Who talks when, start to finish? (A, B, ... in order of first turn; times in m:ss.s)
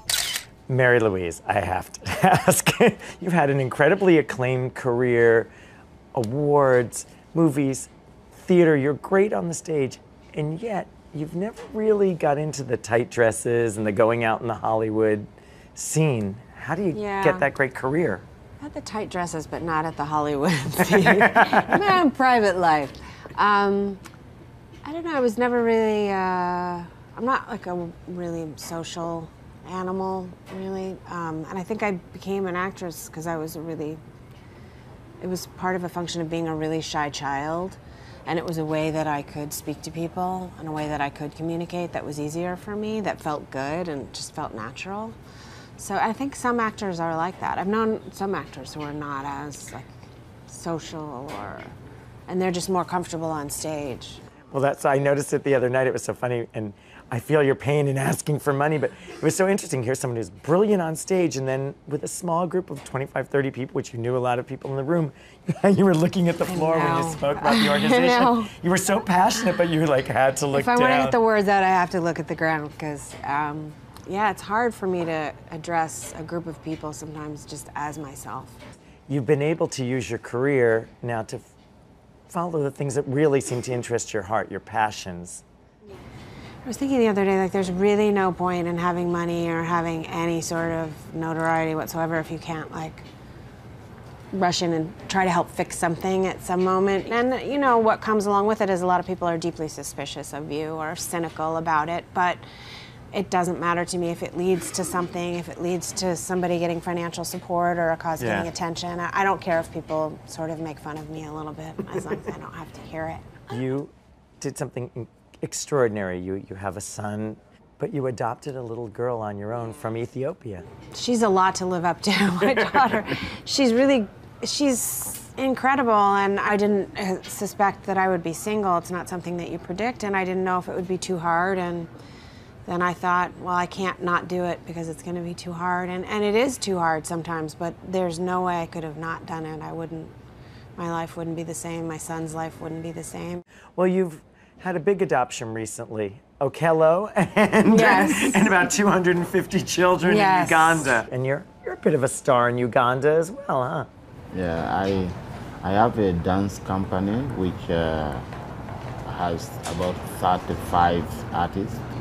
0:00.7-0:05.5 A
0:06.1-0:18.2 A
0:16.9-0:17.5 B
0:18.6-0:24.0 B
0:21.0-0:21.8 A
0:24.8-0:34.0 B
0:35.2-0:45.2 B
0:45.8-0:50.0 B
0:50.5-0:51.7 B
0:52.3-0:54.2 B
0:54.5-1:11.2 A
1:06.5-1:08.5 B
1:10.5-1:18.6 B
1:19.1-1:21.5 A
1:22.3-1:25.4 A
1:26.6-1:33.0 B
1:34.3-1:42.4 B
1:43.1-1:53.5 B
1:48.2-1:48.5 A
1:53.5-2:00.7 A
2:00.9-2:11.9 B
2:12.6-2:20.1 B
2:20.8-2:23.4 B
2:23.8-2:33.9 A
2:27.7-2:28.6 B
2:30.0-2:30.9 B
2:34.3-2:38.3 C
2:39.0-2:41.8 C